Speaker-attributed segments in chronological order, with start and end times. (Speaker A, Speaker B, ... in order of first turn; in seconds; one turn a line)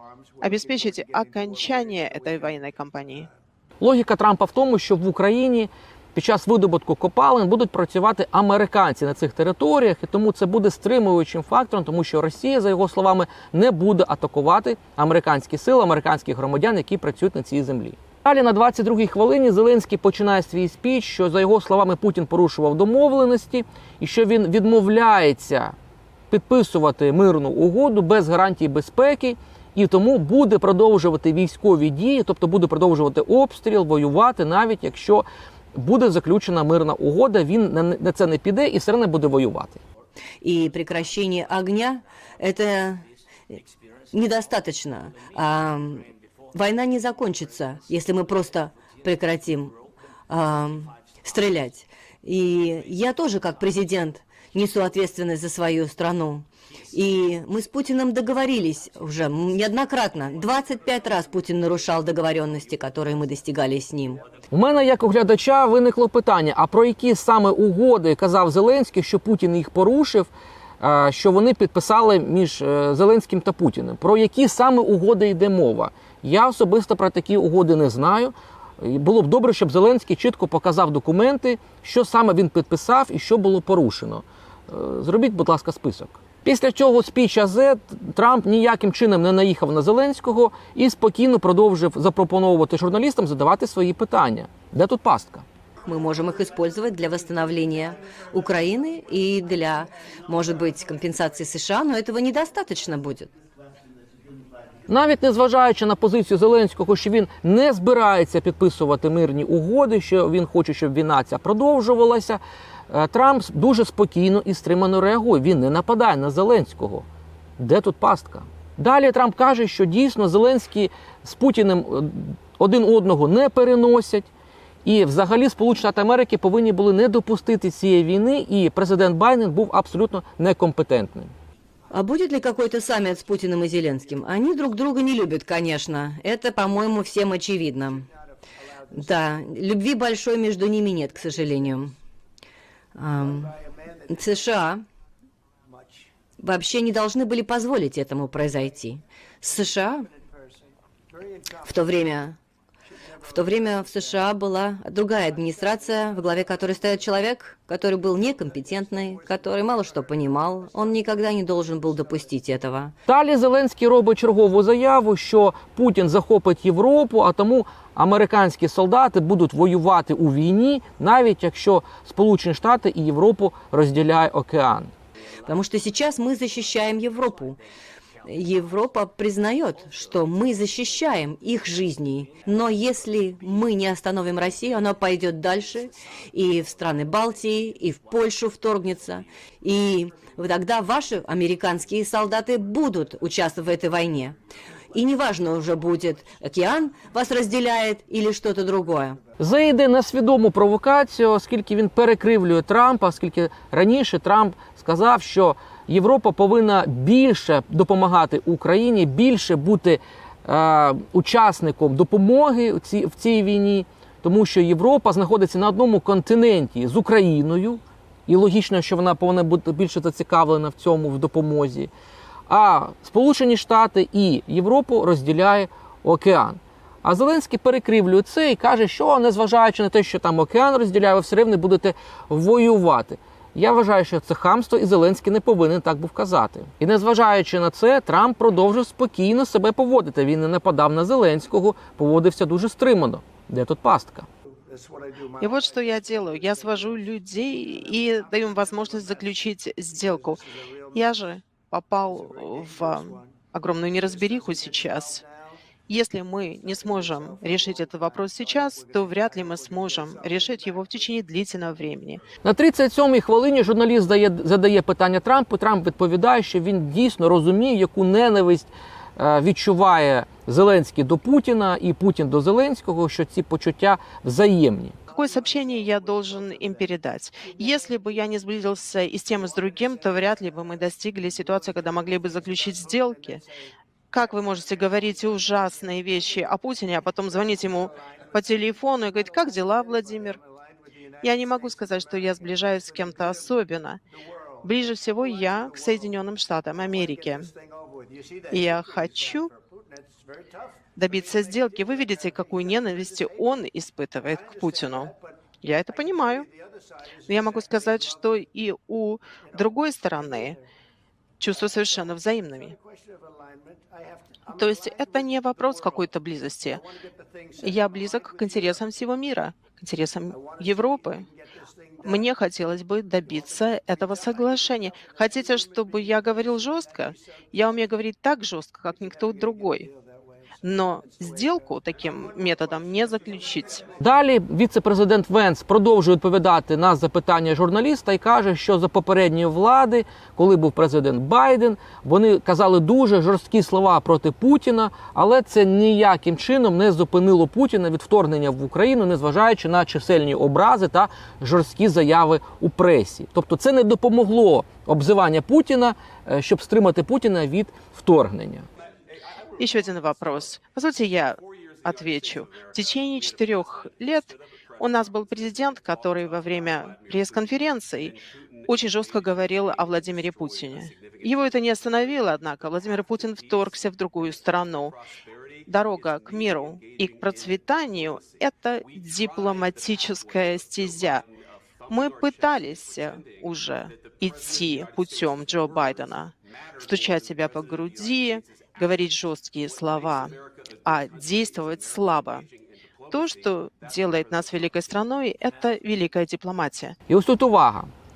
Speaker A: 0.4-3.3
Speaker B: 3.8-25.7
Speaker B: 26.3-39.8
Speaker C: 40.4-43.6
Speaker C: 44.1-49.8
Speaker C: 50.3-64.2
Speaker B: 64.5-95.4
Speaker C: 95.8-103.3
Speaker B: 104.9-117.0
Speaker B: 117.6-124.3
Speaker B: 124.8-131.3
Speaker C: 131.9-138.1
Speaker C: 138.9-141.9
Speaker C: 142.9-144.8
Speaker C: 146.4-150.1
Speaker C: 151.6-152.4
Speaker C: 153.2-162.9
Speaker B: 163.1-174.9
Speaker C: 175.4-177.6
Speaker C: 178.2-194.4
Speaker C: 194.9-199.2
Speaker B: 199.4-221.9
Speaker B: 222.5-244.3
Speaker A: 245.4-255.2
Speaker A: 255.9-262.2
Speaker B: 262.4-275.0
Speaker A: 275.1-283.5
Speaker A: 284.1-290.4
Speaker A: 291.2-294.0
Speaker A: 294.6-297.5
Speaker A: 298.5-299.5
Speaker A: 301.0-306.5
Speaker A: 307.3-310.6
Speaker A: 311.4-312.8
Speaker A: 314.5-316.9
Speaker A: 317.6-321.2
Speaker A: 322.0-329.9
Speaker A: 330.6-333.9
Speaker B: 334.0-358.7
Speaker A: 359.6-375.0
Speaker A: 375.7-381.2
Speaker A: 381.9-392.5
Speaker A: 393.1-397.0
Speaker B: 397.1-397.9